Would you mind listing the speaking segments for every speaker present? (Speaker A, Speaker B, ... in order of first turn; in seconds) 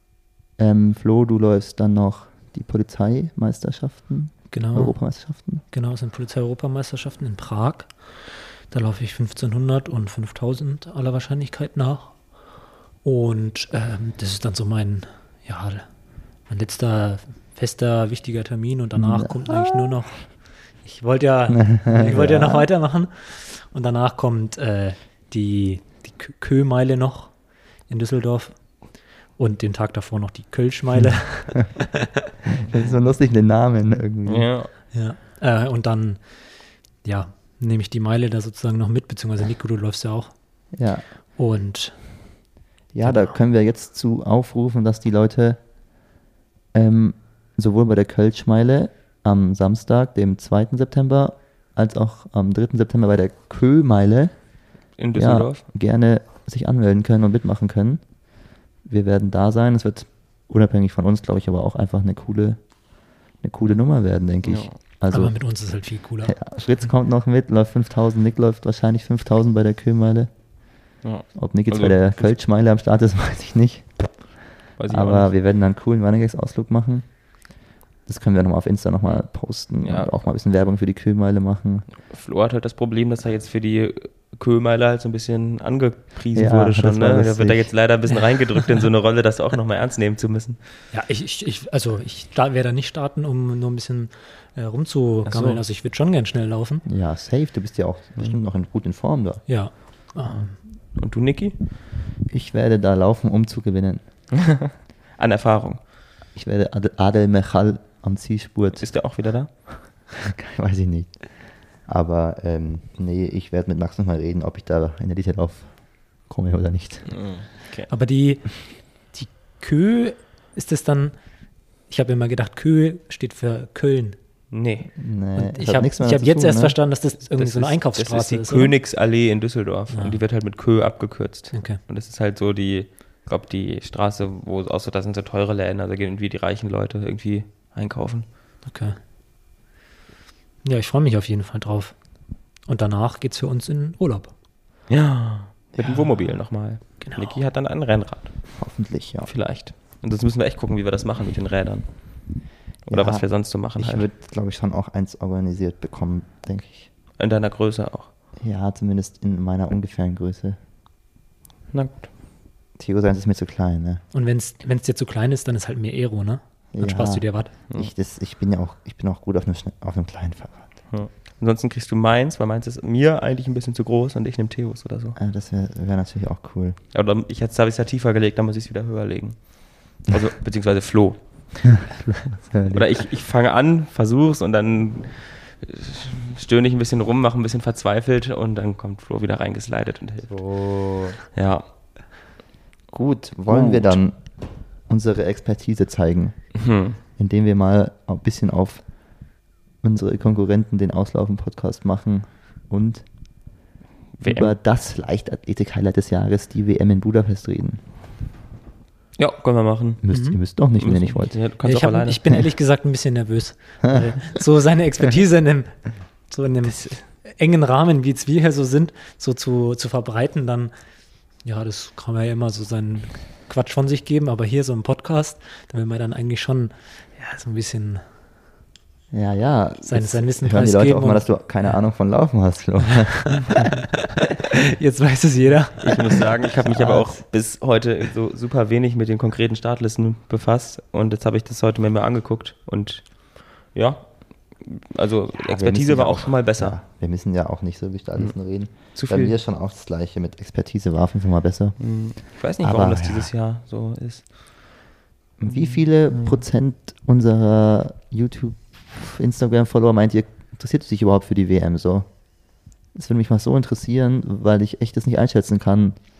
Speaker A: 0.6-5.6, 19.0-20.0, 21.5-22.7, 32.5-34.5, 40.7-41.1, 42.9-45.6, 46.7-54.3, 55.1-58.0, 58.8-62.7, 63.4-65.3, 66.2-70.3, 71.3-77.1, 78.1-81.9, 86.3-87.7, 96.9-99.4, 102.3-104.0, 106.3-108.9, 110.2-117.2, 125.0-126.8, 145.8-146.0, 148.5-149.3, 152.9-156.9, 158.4-160.6, 162.8-164.0, 166.7-170.7, 175.2-176.8, 181.7-182.9, 190.3-191.2, 192.9-194.2, 194.9-196.5, 197.2-198.8, 199.8-203.1, 204.2-207.8, 210.0-211.4, 229.1-233.8, 236.6-237.2, 245.3-251.8, 252.4-253.3, 255.4-262.1, 262.9-266.0
Speaker B: 4.5-5.0, 5.7-12.2, 13.0-15.9, 16.5-20.3, 20.8-27.3, 27.9-28.6, 29.4-32.1, 34.9-36.3, 37.0-40.4, 41.4-42.2, 43.0-43.4, 65.1-66.4, 90.9-96.8, 99.5-100.6, 117.9-121.2, 121.9-124.2, 125.4-128.8, 129.9-130.2, 131.5-131.8, 138.6-139.0, 140.6-141.9, 142.7-144.3, 147.0-147.4, 164.1-167.5, 210.1-210.4, 211.6-220.7, 221.4-228.1, 229.8-231.3, 234.4-236.3
Speaker C: 34.3-34.7, 55.0-55.6, 64.4-64.8, 71.0-72.3, 74.8-75.3, 79.8-80.1, 82.0-90.6, 95.2-95.6, 101.0-101.5, 104.4-105.8, 108.8-109.5, 117.1-117.9, 124.5-124.9, 127.4-138.3, 144.9-148.4, 149.2-151.9, 152.9-154.1, 157.2-158.1, 161.7-162.1, 170.9-175.2, 176.9-181.9, 182.7-190.3, 191.3-191.6, 193.5-194.0, 196.6-197.0, 204.2-204.5, 209.2-210.0, 210.8-212.2, 216.7-217.0, 235.8-246.8, 248.2-249.3, 251.8-254.3, 255.6-256.4